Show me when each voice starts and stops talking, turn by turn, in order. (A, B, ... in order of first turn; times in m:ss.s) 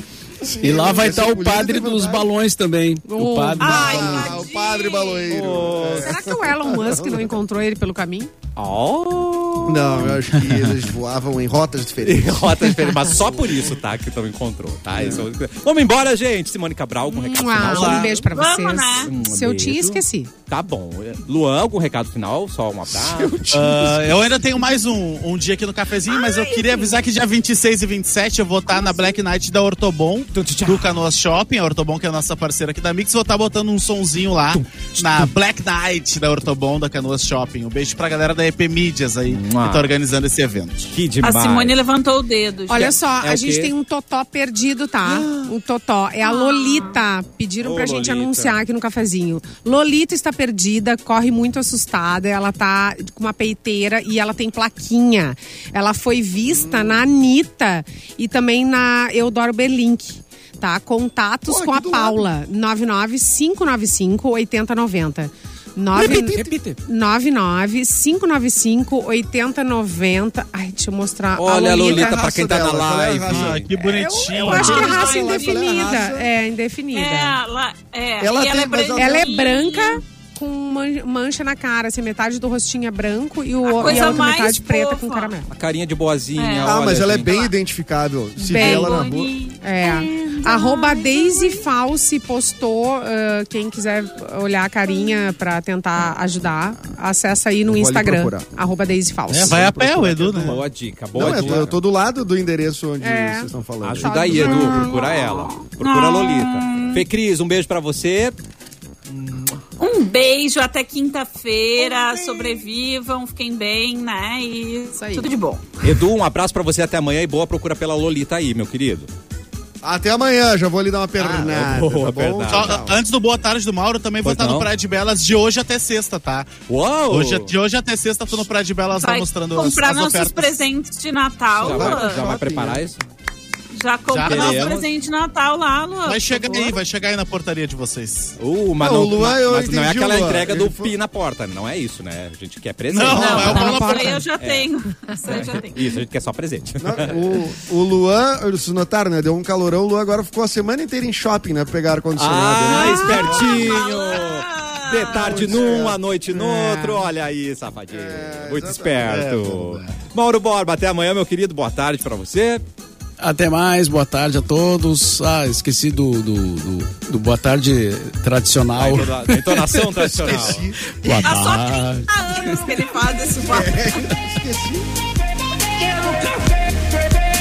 0:00.4-0:02.3 A
0:00.6-0:04.0 B
0:03.0-0:04.4 C
0:03.6-0:05.3 D
0:03.6-0:07.4 A
0:05.3-0:06.2 E
0:06.0-0:08.3 C
0:08.6-0:10.2 E
0:09.7-0:13.5 A
0:12.0-0:18.2 E
0:15.0-0:15.3 A
0:17.1-0:20.3 C
0:17.6-0:18.2 F
0:18.3-0:19.1 D
0:19.0-0:24.1 E
0:22.9-0:24.2 A
0:23.5-0:41.0 F
0:26.0-0:27.0 D
0:28.7-0:29.2 D
0:30.3-0:31.0 E
0:34.5-0:35.3 E
0:39.3-0:39.9 E
0:40.9-0:41.8 E
0:41.2-0:43.0 D
0:42.7-1:12.2 C
0:42.8-0:43.7 E
0:45.1-0:45.5 E
0:46.2-0:47.0 D
0:47.6-0:48.6 E
0:56.5-0:57.0 A
1:01.4-1:02.3 A
1:06.1-1:06.8 E
1:11.4-1:13.7 E
1:11.6-1:13.7 A
1:13.3-1:15.1 F
1:13.8-1:17.4 C
1:14.3-1:16.3 A
1:14.5-1:15.6 D
1:16.9-1:20.0 D
1:18.2-1:19.3 A
1:19.0-1:25.5 C
1:23.6-1:25.4 D
1:23.8-1:24.3 A
1:25.5-1:27.3 E
1:26.4-1:27.5 D
1:26.6-1:29.3 A
1:28.4-1:31.7 D
1:28.5-1:39.9 C
1:37.7-1:38.5 A
1:39.3-1:40.6 F
1:39.5-1:40.6 A
1:40.3-1:41.8 E
1:41.1-1:44.7 A
1:41.3-1:41.6 F
1:43.0-1:45.6 C
1:43.8-1:48.4 E
1:44.4-1:47.0 D
1:49.1-1:49.6 E
1:49.8-1:55.8 D
1:55.0-1:55.3 C
1:55.8-1:59.1 E
1:59.8-2:03.0 A
2:01.2-2:02.9 E
2:02.4-2:10.6 F
2:04.2-2:04.7 E
2:06.7-2:07.5 E
2:09.0-2:12.2 D
2:11.5-2:13.0 E
2:11.6-2:13.0 A
2:13.7-2:16.8 D
2:14.1-2:14.8 F
2:14.2-2:14.9 E
2:16.0-2:18.4 F
2:18.4-2:23.8 E
2:18.8-2:20.9 A
2:22.9-2:24.2 F
2:23.0-2:26.0 D
2:23.1-2:23.6 A
2:23.3-2:24.3 C
2:24.4-2:24.7 E
2:25.3-2:27.4 E
2:26.8-2:33.8 A
2:32.2-2:42.6 E
2:32.7-2:33.4 C
2:33.3-2:35.4 D
2:35.1-2:36.0 A
2:36.3-2:37.1 C
2:37.9-2:39.3 A
2:39.1-2:40.0 F
2:43.2-2:52.6 B
2:48.7-2:50.7 E
2:50.0-2:50.8 A
2:51.2-2:54.1 D
2:53.4-2:54.9 A